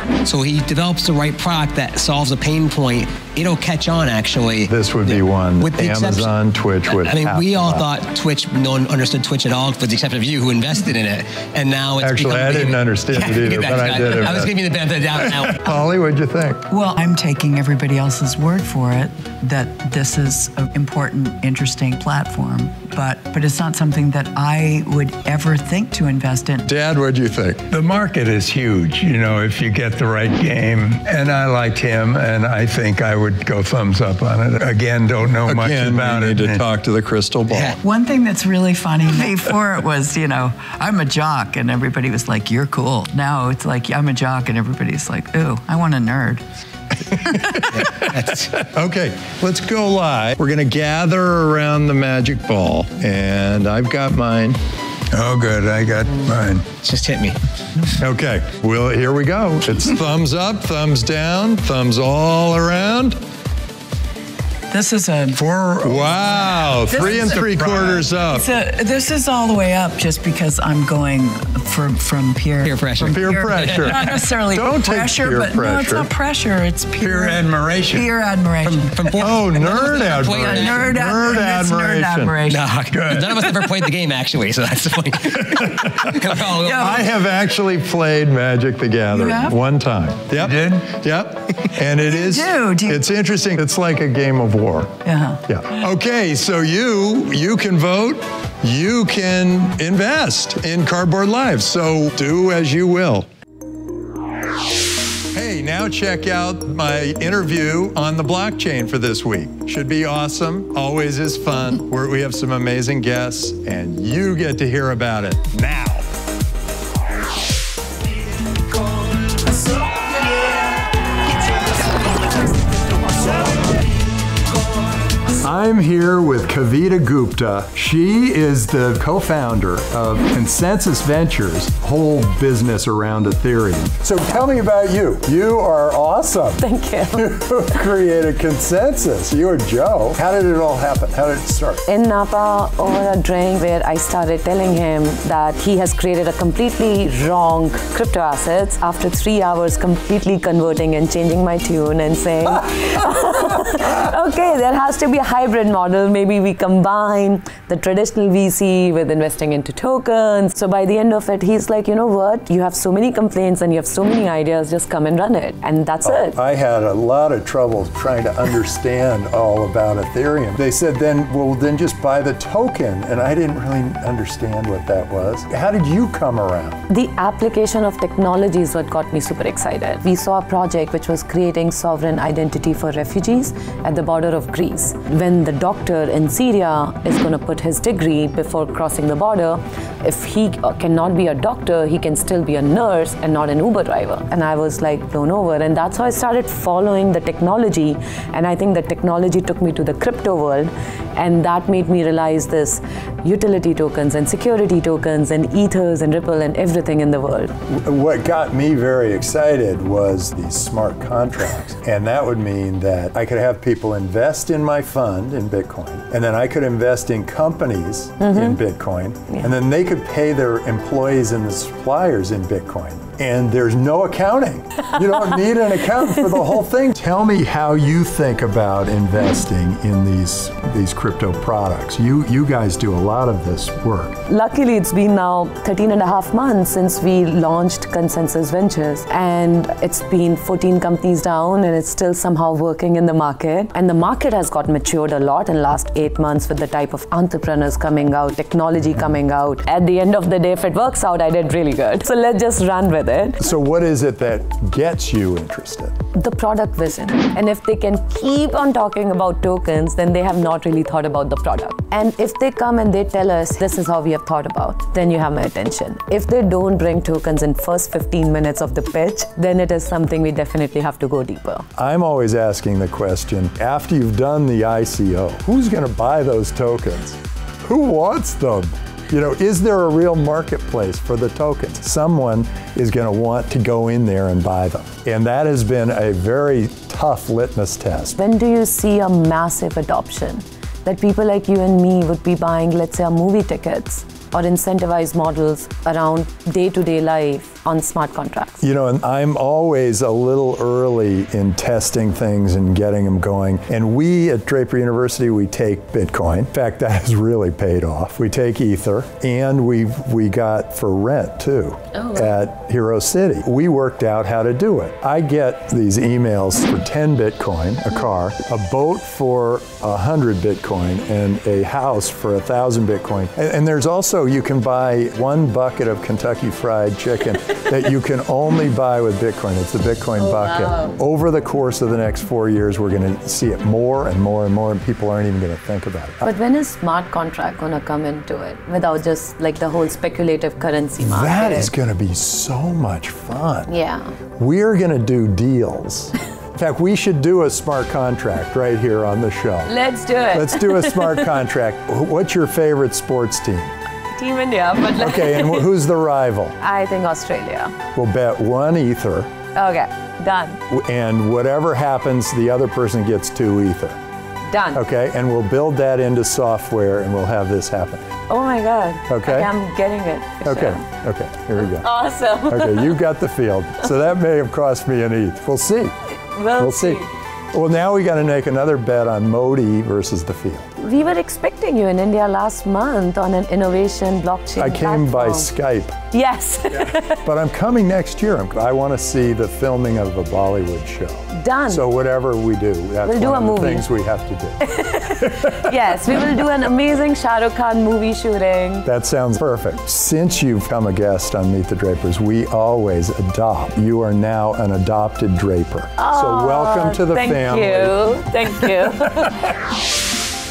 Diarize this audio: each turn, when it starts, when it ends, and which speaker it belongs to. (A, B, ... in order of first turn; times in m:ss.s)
0:00.2-0:06.3 A
0:04.7-0:07.8 B
0:06.9-0:15.6 A
0:12.0-0:14.5 B
0:15.4-0:16.6 B
0:16.7-0:26.7 C
0:26.7-0:27.6 B
0:27.7-0:36.6 D
0:35.4-0:37.8 B
0:37.5-0:37.8 A
0:37.8-0:46.4 C
0:47.7-0:48.5 A
0:48.7-0:54.6 B
0:55.1-0:56.6 D
0:56.8-0:57.4 A
0:58.0-1:03.2 B
1:04.7-1:05.4 C
1:05.3-1:06.5 D
1:05.8-1:08.5 B
1:06.1-1:22.7 C
1:07.2-1:07.9 D
1:12.6-1:14.1 A
1:13.1-1:16.1 B
1:17.0-1:18.1 D
1:18.6-1:21.0 A
1:19.2-1:22.3 B
1:22.5-1:27.0 A
1:22.9-1:23.3 D
1:26.6-1:27.0 C
1:26.7-1:43.3 B
1:29.1-1:29.6 C
1:30.4-1:30.9 D
1:32.0-1:33.0 C
1:35.0-1:35.8 C
1:45.3-1:56.0 B
2:05.4-2:16.6 B
2:16.6-2:17.4 E
2:17.1-2:21.8 B
2:21.9-2:46.4 E
2:46.0-2:56.8 B
2:56.9-3:27.5 E
3:27.7-3:54.2 B
3:38.2-3:38.6 E
3:54.3-4:13.4 E
4:13.4-4:15.9 B
4:16.2-4:31.6 E
4:31.8-4:48.2 B
4:48.2-4:58.6 E
4:58.6-5:36.3 B
5:11.9-5:12.4 E
5:30.2-5:30.9 E
5:36.2-5:41.7 E
5:41.0-5:43.7 B
5:43.7-5:44.1 E
5:44.4-5:49.7 B
5:49.7-5:51.4 E
5:50.3-5:53.7 B
5:54.1-5:55.7 E
5:55.0-5:56.6 B
5:56.6-5:57.8 E
5:57.9-5:59.3 B
5:59.6-6:00.6 E
6:00.7-6:04.0 B
6:04.5-6:04.8 E
6:04.7-6:08.1 B
6:08.3-6:10.8 E
6:09.1-6:09.5 B
6:10.4-6:11.9 B
6:11.6-6:13.0 E
6:12.5-6:15.9 B
6:16.3-6:17.1 E
6:16.6-6:17.0 B
6:17.5-6:20.7 B
6:20.8-6:25.5 E
6:24.6-6:26.0 B
6:26.1-6:27.2 E
6:26.8-6:34.6 B
6:31.3-6:31.8 E
6:33.0-6:33.9 E
6:34.6-6:38.9 E
6:35.2-6:35.6 B
6:38.9-6:48.1 B
6:46.0-6:49.4 E